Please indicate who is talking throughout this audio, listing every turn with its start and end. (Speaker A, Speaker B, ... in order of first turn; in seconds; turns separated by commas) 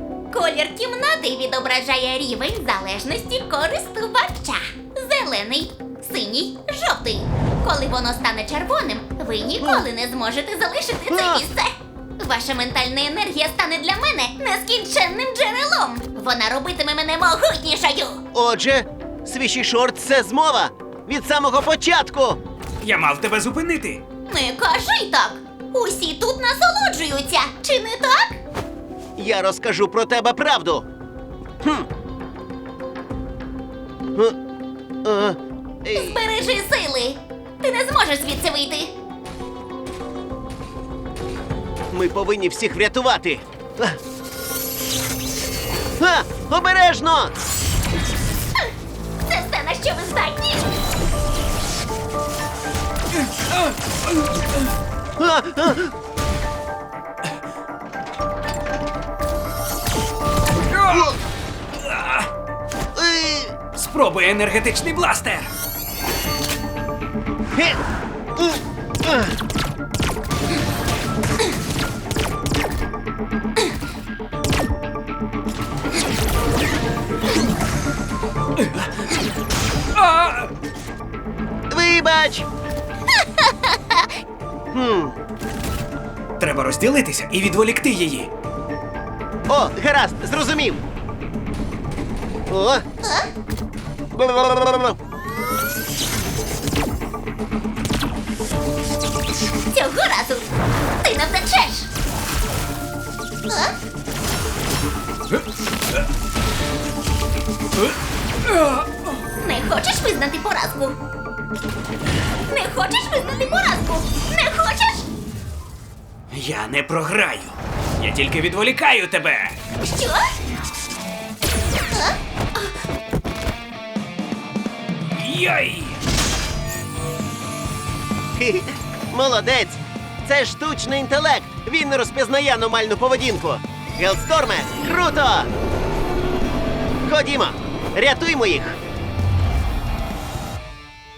Speaker A: 0.3-18.2, Speaker B: 9.6-9.9, Speaker B: 11.1-11.4, Speaker B: 18.3-22.4, Speaker C: 22.8-24.0, Speaker A: 24.3-28.4, Speaker B: 29.2-30.9, Speaker B: 31.6-31.9, Speaker B: 35.0-36.2, Speaker A: 35.9-38.9, Speaker B: 41.9-44.0, Speaker B: 46.0-47.3, Speaker A: 49.3-50.7, Speaker C: 53.2-53.7, Speaker B: 55.2-55.9, Speaker C: 60.7-61.1, Speaker B: 60.9-61.2, Speaker C: 61.7-62.3, Speaker B: 62.9-63.5, Speaker C: 63.7-65.5, Speaker B: 68.3-69.3, Speaker C: 78.6-78.9, Speaker C: 79.9-80.5, Speaker B: 81.7-82.5, Speaker B: 84.7-85.2, Speaker C: 86.4-88.3, Speaker B: 89.5-90.8, Speaker B: 92.5-92.8, Speaker A: 93.0-93.3, Speaker B: 94.1-95.0, Speaker A: 99.7-100.5, Speaker A: 101.0-101.9, Speaker A: 103.5-103.7, Speaker C: 108.5-108.9, Speaker A: 109.3-111.0, Speaker A: 112.5-115.1, Speaker C: 116.3-119.6, Speaker A: 119.8-120.3, Speaker A: 121.9-122.2, Speaker C: 125.1-126.0, Speaker B: 128.4-135.5, Speaker B: 137.1-138.8